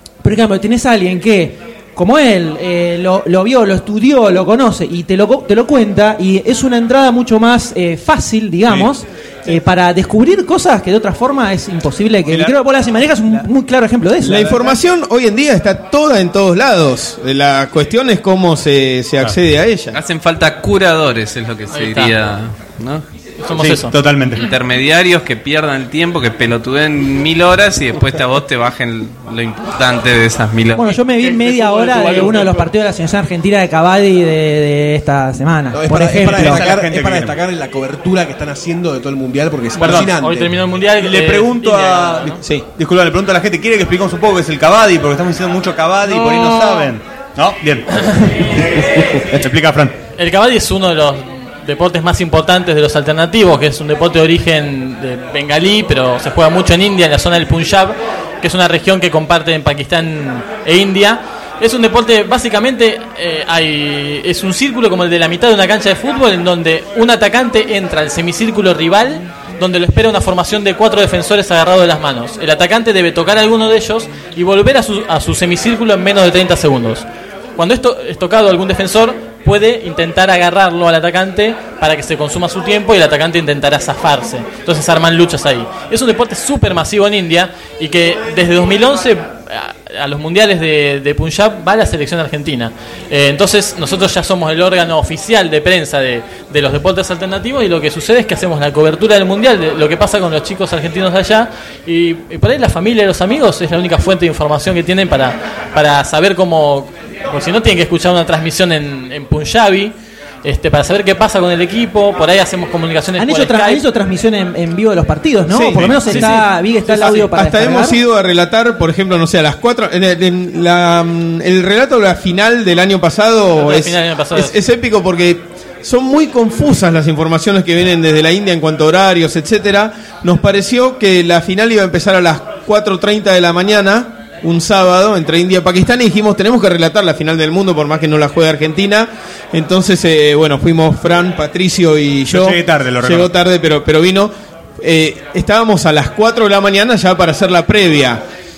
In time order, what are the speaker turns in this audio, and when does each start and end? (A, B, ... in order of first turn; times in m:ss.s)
0:00.2-0:14.8 A
0:12.3-0:12.6 B
0:14.2-0:20.0 C
0:19.9-0:23.0 D
0:21.7-0:22.1 E
0:23.4-0:24.0 E
0:23.6-0:24.5 B
0:24.4-0:30.8 D
0:30.8-0:36.6 A
0:30.9-0:32.7 E
0:35.7-0:40.6 F
0:36.2-0:37.4 B
0:39.8-0:42.4 E
0:41.0-0:50.0 B
0:46.1-0:46.9 E
0:50.2-1:53.8 E
1:53.2-1:58.0 A
1:55.5-2:28.2 C
1:55.8-1:56.0 B
1:56.1-1:56.5 E
2:03.6-2:04.6 E
2:22.3-2:23.3 B